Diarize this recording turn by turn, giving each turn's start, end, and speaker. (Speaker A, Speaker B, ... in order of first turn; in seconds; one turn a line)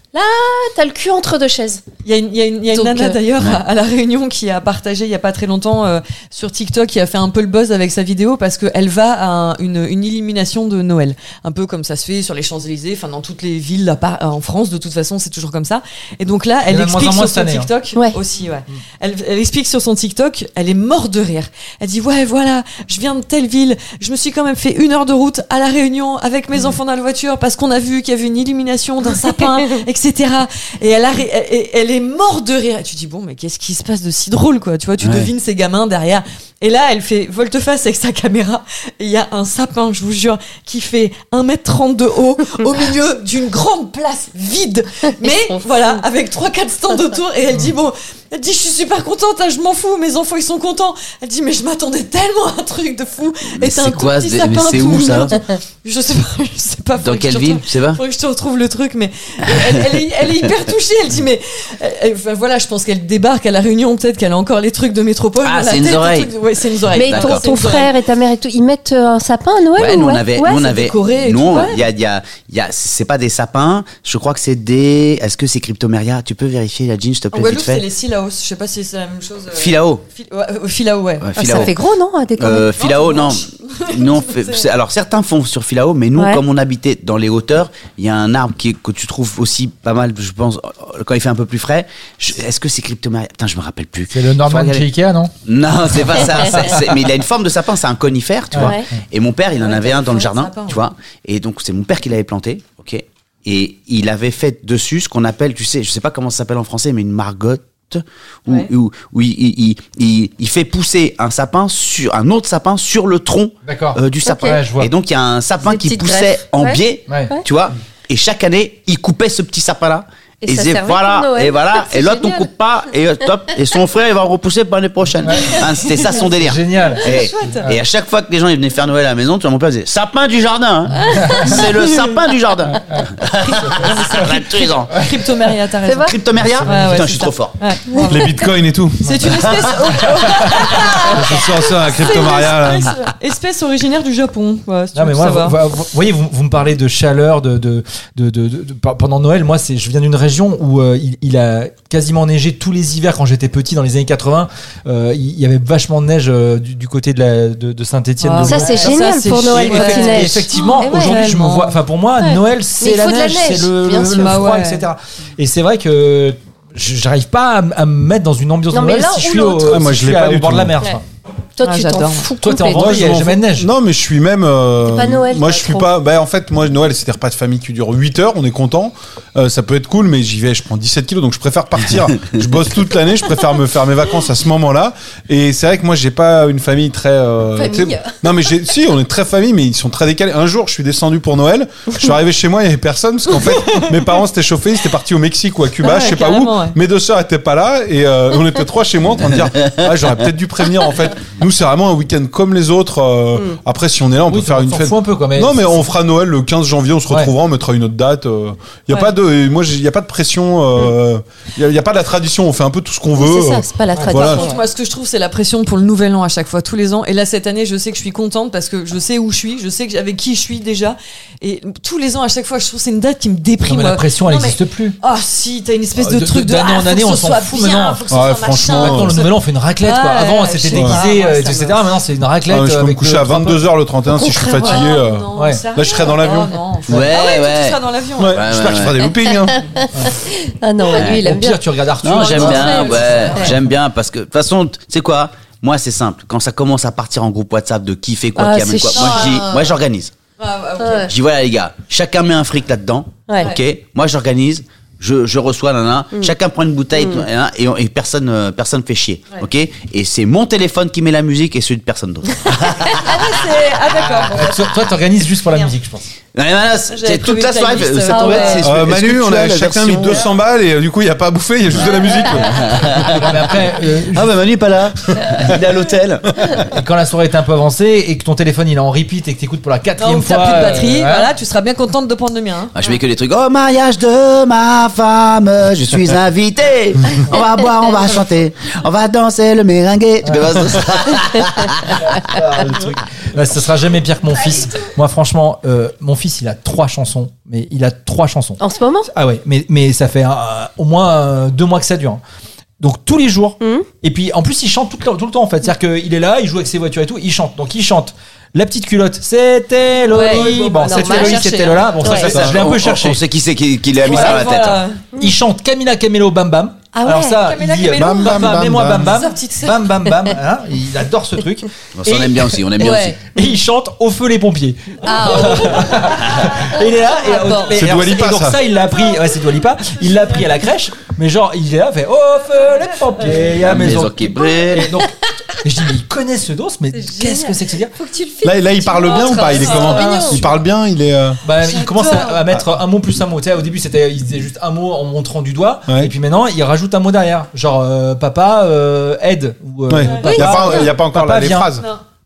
Speaker A: 0.1-1.8
Speaker B: 2.0-67.9
Speaker A: 2.7-3.2
Speaker C: 16.7-17.7
Speaker D: 35.0-35.3
Speaker D: 53.6-55.4
Speaker D: 57.0-58.0
Speaker D: 59.5-60.0
Speaker D: 65.4-66.3
Speaker A: 66.9-70.7
Speaker D: 67.0-67.6
Speaker D: 69.8-77.8
Speaker B: 70.4-71.8
Speaker B: 77.3-81.7
Speaker D: 79.5-80.0
Speaker D: 81.2-81.8
Speaker A: 81.3-82.7
Speaker D: 82.4-94.9
Speaker B: 82.8-84.7
Speaker A: 86.2-86.4
Speaker C: 94.1-95.3
Speaker D: 95.4-134.9
Speaker C: 98.5-98.8
Speaker A: 98.6-98.9
Speaker B: 99.5-100.8
Speaker C: 113.6-114.9
Speaker A: 114.2-114.6
Speaker A: 115.6-117.4
Speaker A: 120.4-122.5
Speaker C: 125.2-125.6
Speaker C: 126.4-127.1
Speaker B: 127.0-127.6
Speaker A: 131.1-131.6
Speaker C: 131.2-131.5
Speaker C: 133.6-134.3
Speaker B: 133.8-138.3
Speaker A: 135.8-136.2
Speaker D: 136.0-137.6
Speaker C: 136.4-137.0
Speaker A: 137.9-138.4
Speaker E: 138.1-139.6
Speaker B: 139.0-145.6
Speaker E: 141.0-142.9
Speaker C: 144.9-171.0
Speaker B: 158.2-161.8
Speaker A: 158.4-161.2
Speaker A: 162.2-164.5
Speaker B: 164.1-164.9
Speaker A: 168.7-169.8
Speaker E: 169.6-170.8
Speaker A: 171.6-173.1
Speaker B: 171.6-172.3
Speaker C: 172.4-173.7
Speaker E: 172.7-214.4
Speaker A: 174.8-175.9
Speaker A: 187.6-188.2
Speaker B: 193.4-194.1
Speaker B: 195.8-196.8
Speaker C: 204.3-205.8
Speaker A: 213.2-214.6
Speaker B: 214.1-231.9
Speaker C: 223.7-225.0
Speaker C: 226.0-228.0
Speaker E: 228.1-229.2
Speaker C: 228.7-233.6
Speaker E: 232.5-237.1
Speaker A: 234.1-234.9
Speaker B: 234.5-238.4
Speaker C: 235.3-235.6
Speaker D: 236.9-239.1
Speaker E: 238.2-239.6
Speaker A: 239.3-241.7
Speaker D: 240.9-241.3
Speaker C: 241.2-243.5
Speaker D: 242.0-250.1
Speaker A: 242.2-243.4
Speaker B: 242.3-243.5
Speaker A: 248.4-249.7
Speaker B: 248.9-249.6
Speaker B: 250.4-251.1
Speaker A: 250.8-251.1
Speaker D: 251.1-263.4
Speaker A: 256.9-257.2
Speaker B: 262.9-264.7
Speaker C: 264.3-266.0
Speaker D: 266.3-270.3
Speaker B: 266.9-268.6
Speaker A: 268.1-268.6
Speaker E: 268.6-273.2
Speaker B: 271.8-272.7
Speaker D: 272.4-273.6
Speaker C: 273.0-274.3
Speaker D: 274.1-276.7
Speaker C: 276.7-281.3
Speaker B: 280.0-282.8
Speaker D: 282.7-292.4
Speaker C: 292.0-298.6
Speaker A: 298.6-299.1
Speaker C: 299.1-302.2
Speaker C: 302.8-313.2
Speaker A: 303.6-303.9
Speaker B: 310.1-312.0
Speaker A: 310.2-312.3
Speaker D: 312.0-314.9
Speaker E: 312.2-312.6
Speaker B: 314.0-315.0
Speaker C: 314.0-314.4
Speaker C: 315.2-337.9
Speaker A: 316.9-317.4
Speaker B: 317.3-319.9
Speaker E: 317.9-319.1
Speaker D: 321.9-323.2
Speaker B: 322.8-323.1
Speaker B: 325.0-327.7
Speaker A: 325.1-325.7
Speaker A: 327.3-327.6
Speaker E: 327.7-328.6
Speaker D: 333.6-334.9
Speaker A: 336.9-340.5
Speaker E: 338.4-341.4
Speaker B: 339.0-340.4
Speaker C: 341.4-351.7
Speaker B: 341.6-342.4
Speaker E: 345.9-346.1
Speaker E: 349.9-351.9
Speaker B: 350.1-350.8
Speaker A: 350.2-350.6